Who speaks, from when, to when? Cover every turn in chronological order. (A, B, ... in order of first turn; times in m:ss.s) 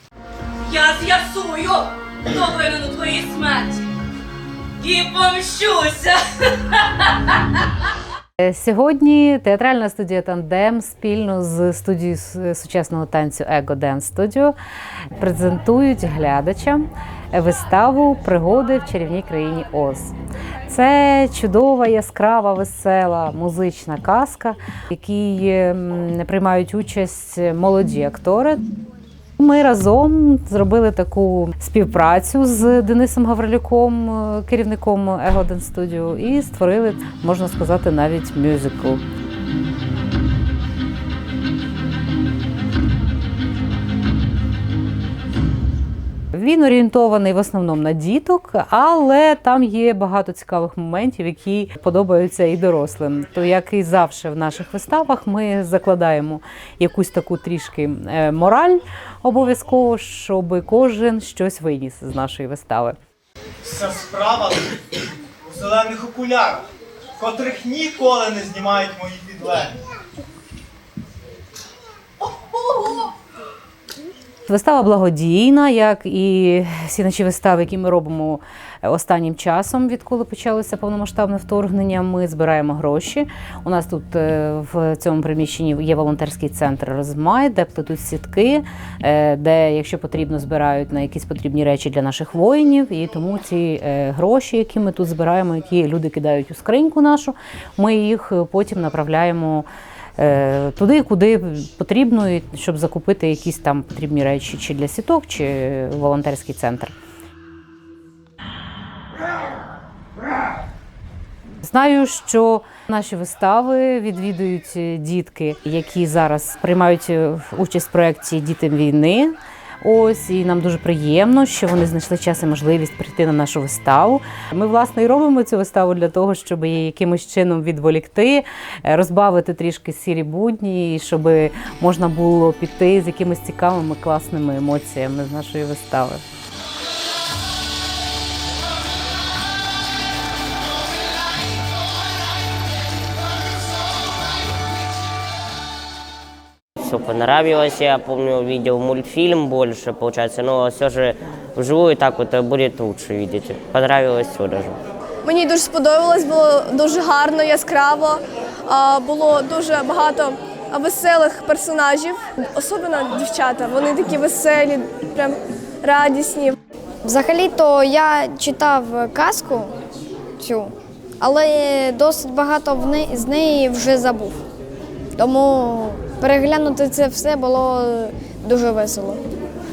0:00.6-0:03.9 A
0:04.8-0:07.0 A
0:08.4-0:14.5 B
0:15.1-0:20.1 B
0:20.6-0:28.6 B
0:29.4-0:39.0 B
0:46.3-1:03.0 B
1:03.6-1:04.8 C
1:05.4-1:06.6 C
1:07.2-1:09.8 C
1:14.4-1:39.7 B
1:40.2-1:46.9 B
1:51.6-2:16.2 B
2:26.8-2:34.8 D
2:35.2-2:46.6 E
2:47.0-2:49.7 F
2:50.4-2:54.4 F
2:55.2-2:59.2 F